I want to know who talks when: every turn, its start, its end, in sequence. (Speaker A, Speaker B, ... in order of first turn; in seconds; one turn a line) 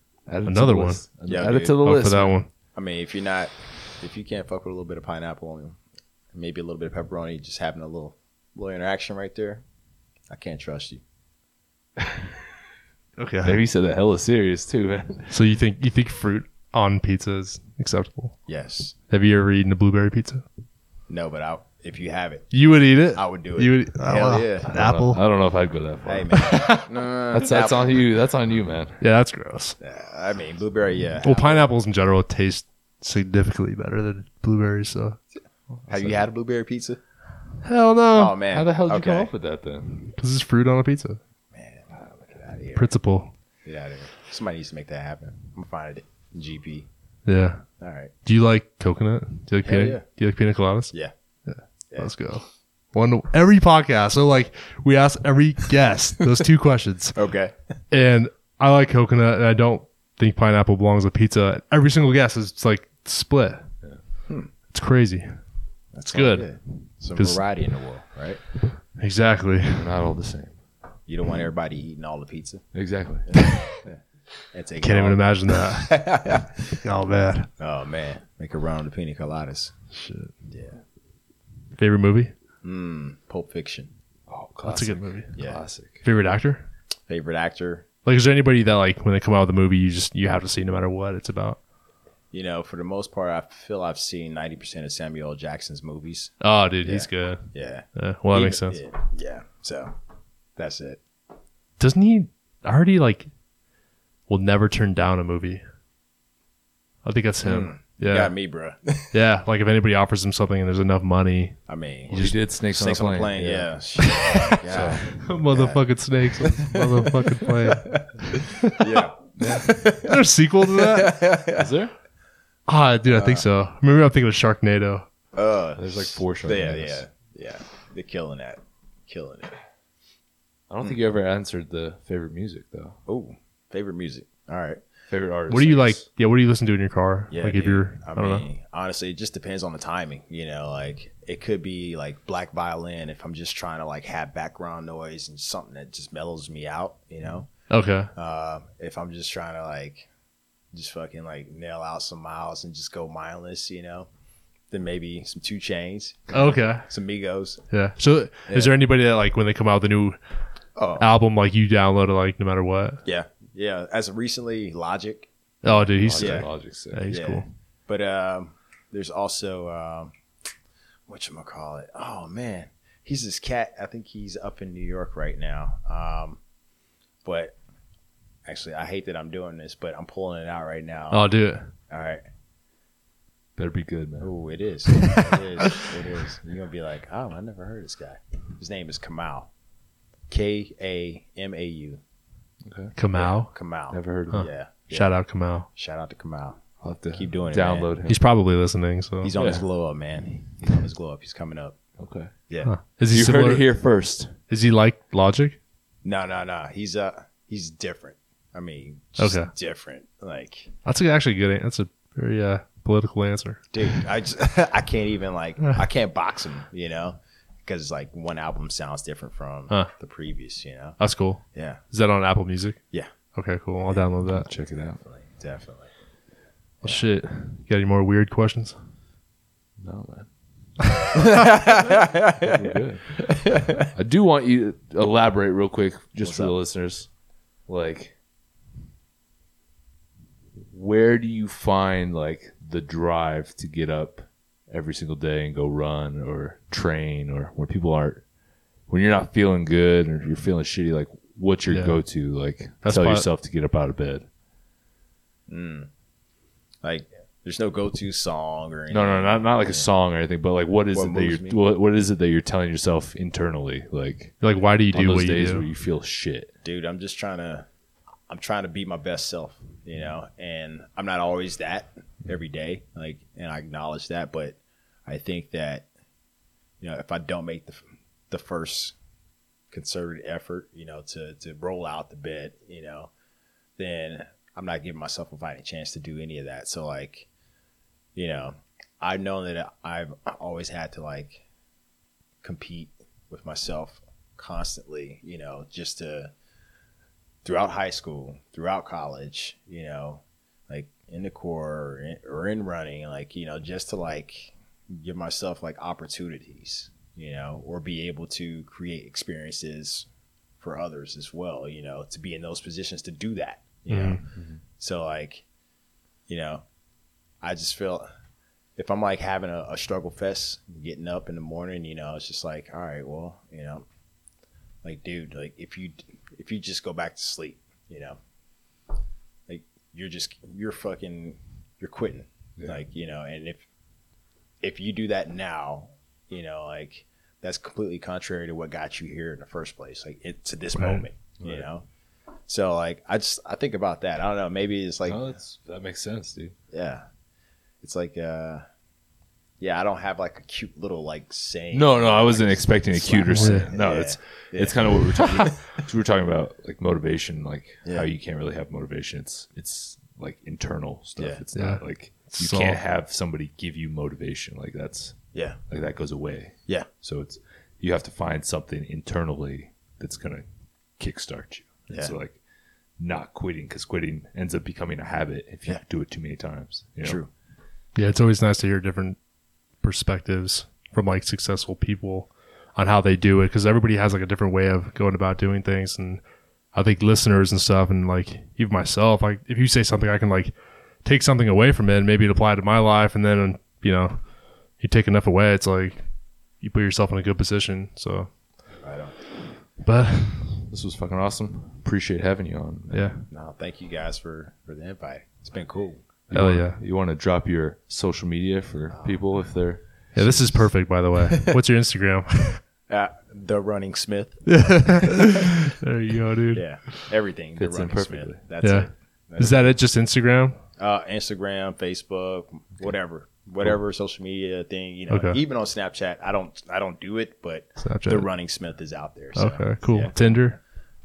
Speaker A: 0.3-2.3
Speaker B: 0.5-1.0
Speaker C: 1.3-1.8
Speaker B: 1.8-2.5
Speaker C: 2.7-5.8
Speaker C: 6.3-9.6
Speaker C: 10.3-11.0
Speaker A: 12.0-12.3
Speaker B: 13.2-13.6
Speaker A: 13.4-15.3
Speaker B: 15.3-18.4
Speaker C: 18.5-18.9
Speaker B: 19.1-20.4
Speaker C: 21.1-22.5
Speaker B: 22.5-25.2
Speaker C: 23.1-24.8
Speaker A: 24.7-26.6
Speaker C: 26.0-27.9
Speaker B: 26.3-26.9
Speaker A: 27.3-29.0
Speaker B: 29.0-29.8
Speaker C: 29.8-31.7
Speaker B: 31.2-35.2
Speaker C: 35.9-37.0
Speaker A: 35.9-36.2
Speaker B: 37.6-38.4
Speaker C: 38.1-39.3
Speaker A: 38.5-40.1
Speaker B: 40.1-41.2
Speaker C: 41.5-42.9
Speaker B: 42.8-43.3
Speaker C: 43.6-46.9
Speaker B: 47.2-47.6
Speaker C: 47.8-48.1
Speaker B: 48.2-50.9
Speaker C: 49.6-50.0
Speaker B: 51.5-57.2
Speaker C: 57.1-57.5
Speaker B: 57.9-63.6
Speaker B: 64.7-65.4
Speaker C: 65.9-68.4
Speaker B: 66.1-67.4
Speaker B: 69.0-69.9
Speaker A: 69.7-70.6
Speaker C: 71.1-72.6
Speaker A: 72.7-73.3
Speaker C: 73.2-74.0
Speaker B: 73.4-73.7
Speaker C: 74.5-76.8
Speaker B: 74.8-77.5
Speaker C: 77.6-79.8
Speaker B: 79.9-80.3
Speaker C: 80.5-80.8
Speaker B: 81.7-82.3
Speaker C: 82.6-83.9
Speaker A: 84.3-86.0
Speaker B: 84.6-85.3
Speaker C: 85.3-85.6
Speaker B: 86.0-86.7
Speaker C: 87.1-87.8
Speaker B: 88.0-91.6
Speaker C: 92.3-96.3
Speaker B: 96.4-98.8
Speaker C: 96.8-99.9
Speaker C: 100.6-101.0
Speaker B: 101.8-103.3
Speaker B: 104.3-105.6
Speaker B: 107.0-108.3
Speaker C: 107.4-109.2
Speaker B: 109.1-112.3
Speaker C: 111.7-118.1
Speaker A: 112.1-113.7
Speaker B: 114.0-114.5
Speaker A: 114.6-115.2
Speaker B: 115.0-118.9
Speaker C: 118.6-121.7
Speaker A: 119.4-119.7
Speaker B: 120.0-121.3
Speaker A: 121.5-121.9
Speaker B: 122.7-125.0
Speaker C: 123.1-123.5
Speaker C: 125.3-129.5
Speaker A: 125.8-127.0
Speaker A: 130.7-133.0
Speaker C: 133.1-134.8
Speaker A: 135.1-136.0
Speaker B: 135.5-138.4
Speaker C: 137.3-147.5
Speaker B: 147.7-148.1
Speaker C: 148.1-150.1
Speaker C: 150.7-154.1
Speaker C: 154.7-157.6
Speaker B: 156.3-156.9
Speaker B: 157.7-160.2
Speaker C: 158.5-158.8
Speaker C: 160.8-161.1
Speaker B: 161.0-163.0
Speaker C: 163.0-165.3
Speaker B: 165.6-167.5
Speaker A: 165.7-167.1
Speaker C: 166.2-166.5
Speaker C: 167.1-170.1
Speaker C: 171.1-176.4
Speaker C: 177.2-177.6
Speaker C: 178.4-181.3
Speaker B: 181.1-181.7
Speaker C: 181.9-182.2
Speaker A: 183.6-184.3
Speaker C: 184.2-189.5
Speaker C: 190.3-192.0
Speaker A: 192.6-192.9
Speaker B: 192.9-193.5
Speaker C: 193.1-195.1
Speaker A: 193.9-194.5
Speaker B: 194.3-195.7
Speaker C: 195.8-197.9
Speaker A: 196.8-198.2
Speaker B: 198.1-199.3
Speaker C: 199.2-201.8
Speaker A: 199.3-199.7
Speaker A: 202.0-202.3
Speaker C: 202.5-202.7
Speaker B: 202.6-203.7
Speaker A: 203.1-204.3
Speaker B: 204.5-205.6
Speaker C: 206.0-210.7
Speaker B: 209.2-209.5
Speaker B: 210.8-214.0
Speaker C: 213.7-221.0
Speaker B: 221.0-222.8
Speaker C: 221.5-221.8
Speaker B: 223.3-224.5
Speaker A: 224.2-225.0
Speaker C: 225.0-225.9
Speaker B: 226.8-228.7
Speaker A: 229.8-230.3
Speaker C: 231.1-233.9
Speaker A: 232.4-237.1
Speaker C: 236.2-236.5
Speaker A: 237.7-238.1
Speaker A: 240.6-248.2
Speaker A: 248.9-254.3
Speaker B: 251.7-252.0
Speaker B: 252.8-253.2
Speaker C: 255.5-255.9
Speaker C: 256.8-259.9
Speaker A: 258.9-264.4
Speaker C: 260.9-261.6
Speaker B: 264.4-265.6
Speaker A: 264.9-266.5
Speaker C: 266.6-267.7
Speaker C: 268.3-275.9
Speaker C: 276.8-278.9
Speaker C: 279.7-283.1
Speaker C: 283.8-287.3
Speaker C: 288.1-291.4
Speaker C: 292.4-296.3
Speaker C: 297.4-310.1
Speaker C: 310.6-314.2
Speaker B: 313.9-314.2
Speaker A: 314.3-314.6
Speaker C: 314.8-315.4
Speaker C: 316.3-316.6
Speaker C: 317.4-318.1
Speaker C: 318.8-323.9
Speaker C: 324.8-328.2
Speaker C: 329.5-333.6
Speaker C: 334.6-341.8
Speaker B: 340.7-341.1
Speaker A: 341.4-341.6
Speaker C: 342.5-345.3
Speaker A: 345.1-346.5
Speaker C: 346.7-347.0
Speaker C: 347.8-348.6
Speaker C: 349.6-355.5
Speaker A: 351.7-370.4
Speaker B: 353.3-353.7
Speaker C: 357.8-358.1
Speaker B: 361.5-362.8
Speaker A: 371.0-372.4
Speaker C: 371.9-372.1
Speaker A: 373.0-377.2
Speaker C: 377.0-377.3
Speaker B: 377.9-379.2
Speaker B: 379.8-386.2
Speaker B: 386.7-394.2
Speaker B: 394.8-396.0
Speaker B: 396.6-398.3
Speaker C: 398.8-399.1
Speaker B: 399.8-400.7
Speaker A: 400.7-403.1
Speaker B: 402.9-403.3
Speaker C: 403.3-406.0
Speaker A: 406.3-410.6
Speaker B: 406.3-406.8
Speaker C: 408.9-409.2
Speaker B: 410.1-412.6
Speaker C: 412.9-415.6
Speaker B: 414.4-416.9
Speaker C: 416.5-419.7
Speaker A: 417.6-418.4
Speaker B: 418.6-420.6
Speaker C: 420.8-430.4
Speaker B: 425.1-425.4
Speaker B: 427.8-428.3
Speaker B: 429.4-430.6